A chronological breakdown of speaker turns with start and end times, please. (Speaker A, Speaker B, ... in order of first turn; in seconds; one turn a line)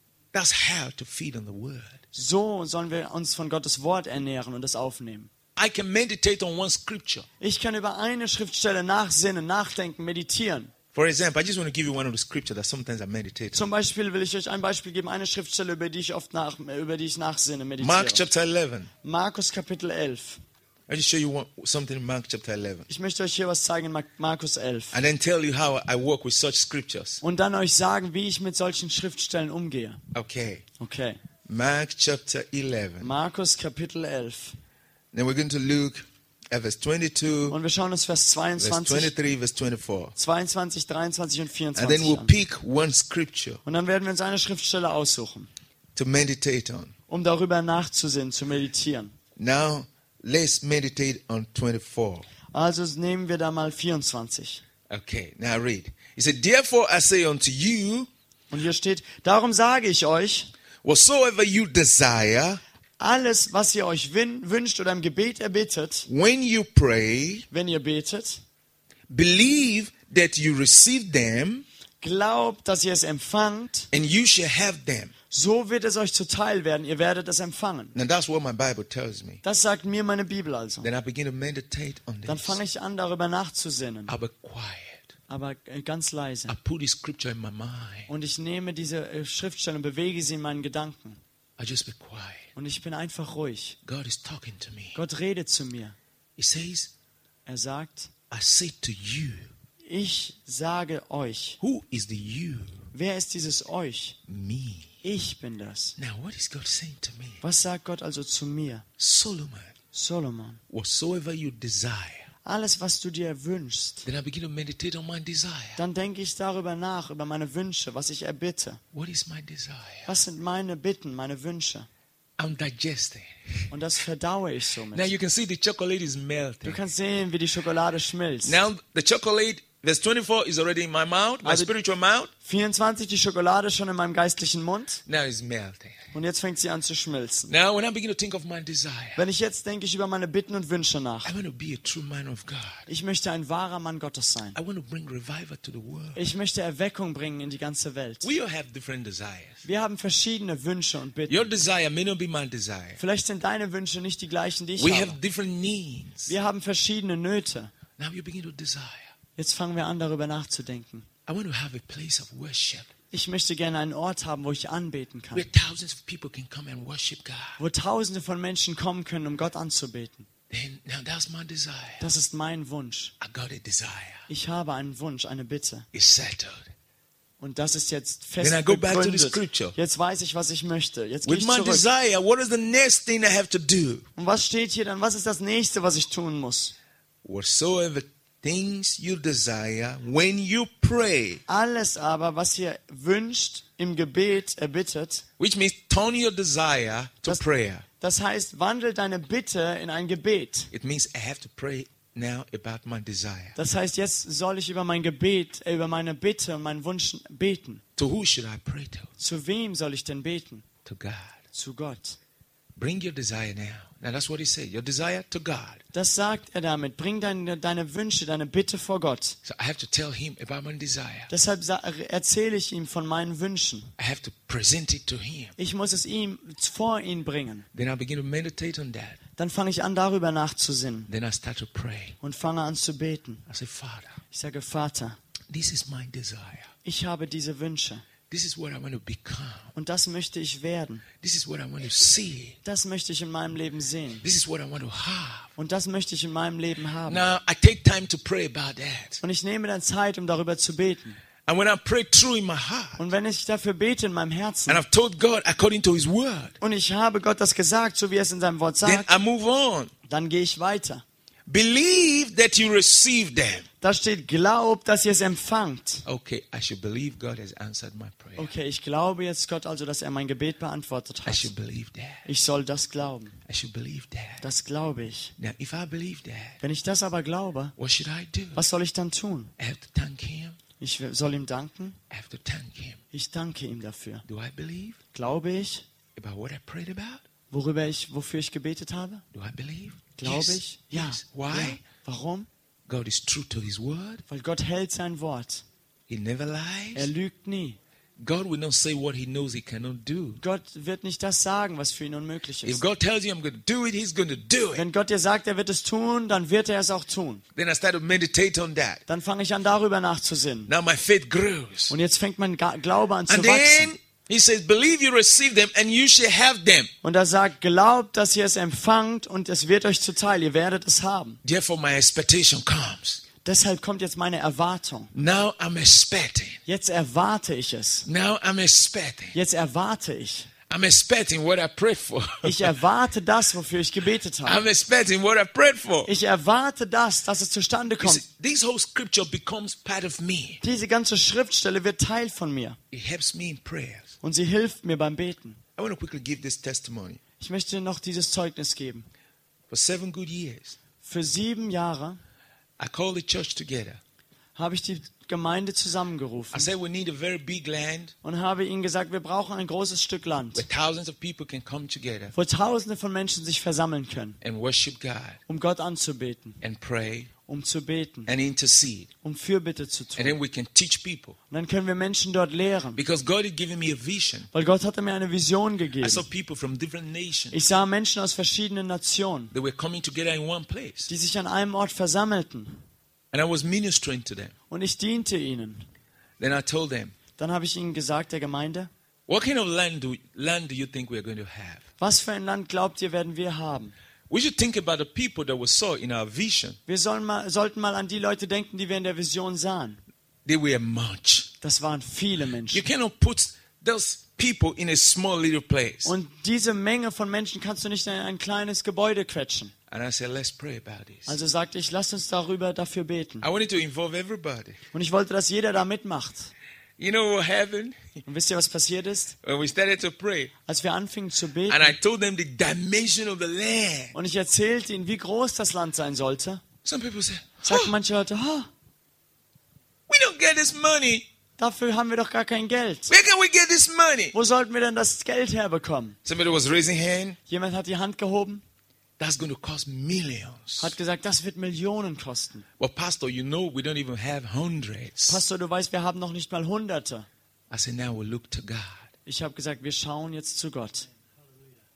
Speaker A: 0.3-2.0
Speaker B: 2.1-5.3
Speaker A: 5.5-7.2
Speaker B: 7.4-10.7
Speaker A: 10.9-13.7
Speaker B: 13.5-18.2
Speaker A: 17.8-18.9
Speaker B: 19.0-20.4
Speaker A: 20.9-22.9
Speaker B: 22.9-25.0
Speaker A: 24.9-27.2
Speaker B: 27.2-30.0
Speaker A: 30.1-30.6
Speaker B: 30.8-31.2
Speaker A: 31.4-33.1
Speaker B: 33.0-34.6
Speaker A: 35.1-37.6
Speaker B: 37.5-39.1
Speaker A: 38.6-40.1
Speaker B: 40.1-42.3
Speaker A: 41.8-43.6
Speaker B: 43.6-45.5
Speaker A: 45.9-46.9
Speaker B: 47.1-49.1
Speaker A: 49.4-52.3
Speaker B: 52.5-54.6
Speaker A: 54.9-58.1
Speaker B: 58.5-60.5
Speaker A: 60.8-62.6
Speaker B: 63.0-66.1
Speaker A: 66.1-67.5
Speaker B: 67.5-68.4
Speaker A: 69.1-71.6
Speaker B: 72.0-73.9
Speaker A: 73.9-75.1
Speaker B: 75.3-77.9
Speaker A: 77.9-79.4
Speaker B: 79.4-80.9
Speaker A: 80.8-82.6
Speaker B: 82.2-84.2
Speaker A: 84.1-85.1
Speaker B: 85.3-86.5
Speaker A: 86.5-88.1
Speaker B: 88.1-91.2
Speaker A: 91.6-92.5
Speaker B: 92.5-93.8
Speaker A: 93.8-95.0
Speaker B: 94.9-96.0
Speaker A: 96.4-96.9
Speaker B: 97.5-98.1
Speaker A: 98.3-99.5
Speaker B: 99.8-101.6
Speaker A: 101.6-102.9
Speaker B: 102.9-104.2
Speaker A: 104.3-104.9
Speaker B: 105.0-106.0
Speaker A: 106.0-107.4
Speaker B: 107.4-108.8
Speaker A: 109.0-109.7
Speaker B: 109.9-110.6
Speaker A: 110.7-112.3
Speaker B: 112.4-114.1
Speaker A: 114.0-115.8
Speaker B: 115.8-118.8
Speaker A: 118.9-120.1
Speaker B: 120.0-121.9
Speaker A: 122.4-123.7
Speaker B: 123.7-125.1
Speaker A: 124.9-126.8
Speaker B: 126.6-128.6
Speaker A: 128.4-132.3
Speaker B: 131.4-131.7
Speaker B: 132.4-135.0
Speaker A: 135.1-136.0
Speaker B: 136.1-137.5
Speaker A: 137.5-139.2
Speaker B: 139.2-141.3
Speaker A: 141.2-142.9
Speaker B: 142.9-144.6
Speaker A: 144.5-146.2
Speaker B: 146.1-148.3
Speaker A: 148.2-149.6
Speaker B: 149.6-151.5
Speaker A: 151.3-153.0
Speaker B: 153.0-155.2
Speaker A: 154.8-156.3
Speaker B: 156.3-157.7
Speaker A: 158.0-159.1
Speaker B: 159.3-161.1
Speaker A: 161.3-162.9
Speaker B: 163.1-165.5
Speaker A: 165.3-167.6
Speaker B: 167.6-170.2
Speaker A: 170.5-172.1
Speaker B: 172.0-173.1
Speaker A: 173.2-174.2
Speaker B: 174.3-175.9
Speaker A: 175.9-176.7
Speaker B: 177.4-181.8
Speaker A: 178.4-179.8
Speaker A: 181.2-184.1
Speaker B: 184.2-186.7
Speaker A: 187.2-191.4
Speaker B: 191.5-195.2
Speaker A: 195.4-197.8
Speaker B: 198.0-200.7
Speaker A: 200.7-203.6
Speaker B: 203.6-207.8
Speaker A: 208.0-209.1
Speaker B: 209.2-210.6
Speaker A: 210.8-211.4
Speaker B: 211.5-212.2
Speaker A: 212.8-215.8
Speaker B: 215.9-219.4
Speaker A: 219.4-221.3
Speaker B: 221.3-223.9
Speaker A: 224.0-225.5
Speaker B: 225.6-227.7
Speaker A: 227.7-229.2
Speaker B: 229.4-231.1
Speaker A: 231.1-232.2
Speaker B: 232.2-233.4
Speaker A: 233.5-234.2
Speaker B: 234.3-235.2
Speaker A: 235.5-236.7
Speaker B: 236.8-238.1
Speaker A: 238.3-239.7
Speaker B: 239.7-241.0
Speaker A: 241.2-242.6
Speaker B: 242.6-244.2
Speaker A: 244.2-245.5
Speaker B: 245.6-247.3
Speaker A: 247.1-249.2
Speaker B: 249.2-251.2
Speaker A: 251.4-253.0
Speaker B: 253.0-254.8
Speaker A: 254.7-256.6
Speaker B: 256.6-259.1
Speaker A: 258.8-259.9
Speaker B: 260.1-261.0
Speaker A: 261.5-263.6
Speaker B: 263.8-266.0
Speaker A: 266.1-268.5
Speaker B: 268.4-271.5
Speaker A: 271.2-272.3
Speaker B: 272.2-273.4
Speaker A: 273.4-274.4
Speaker B: 274.4-275.3
Speaker A: 275.4-276.6
Speaker B: 276.6-277.7
Speaker A: 277.8-278.6
Speaker B: 278.5-279.5
Speaker A: 279.6-280.6
Speaker B: 280.8-282.0
Speaker A: 282.1-283.0
Speaker B: 283.1-284.2
Speaker A: 284.3-285.0
Speaker B: 285.1-285.8
Speaker A: 286.1-287.2
Speaker B: 287.5-289.2
Speaker A: 289.3-291.8
Speaker B: 290.2-292.5
Speaker A: 292.9-294.2
Speaker B: 294.3-295.6
Speaker A: 296.1-297.1
Speaker B: 296.9-297.8
Speaker A: 298.2-300.4
Speaker B: 300.4-302.8
Speaker A: 302.6-304.9
Speaker B: 304.7-307.4
Speaker A: 307.6-309.0
Speaker B: 309.1-310.7
Speaker A: 310.7-311.9
Speaker B: 311.9-313.9
Speaker A: 313.3-316.9
Speaker B: 317.0-321.4
Speaker A: 321.4-323.2
Speaker B: 323.4-325.1
Speaker A: 325.1-326.6
Speaker B: 326.6-328.1
Speaker A: 328.1-329.3
Speaker B: 329.3-330.5
Speaker A: 330.7-332.8
Speaker B: 332.4-334.6
Speaker A: 334.4-336.1
Speaker B: 336.1-338.2
Speaker A: 338.0-340.6
Speaker B: 340.6-342.8
Speaker A: 342.9-344.1
Speaker B: 344.2-345.6
Speaker A: 345.8-347.2
Speaker B: 347.4-349.1
Speaker A: 349.7-350.8
Speaker B: 351.0-352.2
Speaker A: 352.8-354.0
Speaker B: 354.6-356.7
Speaker A: 356.5-358.1
Speaker B: 358.2-360.6
Speaker A: 360.5-362.3
Speaker B: 362.3-364.4
Speaker A: 364.4-365.4
Speaker B: 365.5-366.6
Speaker A: 366.6-367.3
Speaker B: 367.5-368.3
Speaker A: 368.3-369.1
Speaker B: 369.2-370.4
Speaker A: 370.1-371.4
Speaker B: 371.5-373.0
Speaker A: 372.9-374.5
Speaker B: 374.5-376.2
Speaker A: 376.0-377.6
Speaker B: 377.5-379.5
Speaker A: 379.5-381.1
Speaker B: 381.1-382.8
Speaker A: 383.3-384.5
Speaker B: 384.7-385.8
Speaker A: 386.4-387.1
Speaker B: 387.4-388.9
Speaker A: 389.3-391.8
Speaker B: 392.0-393.9
Speaker A: 394.3-396.8
Speaker B: 396.9-400.0
Speaker A: 400.4-401.5
Speaker B: 401.6-402.9
Speaker A: 402.7-406.1
Speaker B: 406.0-409.7
Speaker A: 409.9-411.4
Speaker B: 411.2-413.5
Speaker A: 413.4-414.8
Speaker B: 414.9-416.5
Speaker A: 417.0-418.2
Speaker B: 418.2-419.3
Speaker A: 419.4-420.5
Speaker B: 420.6-421.9
Speaker A: 421.7-424.1
Speaker B: 424.1-426.6
Speaker A: 426.8-427.9
Speaker B: 427.6-428.7
Speaker A: 430.1-431.3
Speaker B: 431.6-433.1
Speaker A: 433.1-434.3
Speaker B: 434.3-436.2
Speaker A: 436.2-437.4
Speaker B: 437.5-438.6
Speaker A: 439.2-441.0
Speaker B: 440.8-442.6
Speaker A: 442.8-445.4
Speaker B: 445.3-447.3
Speaker A: 447.7-449.1
Speaker B: 449.2-451.1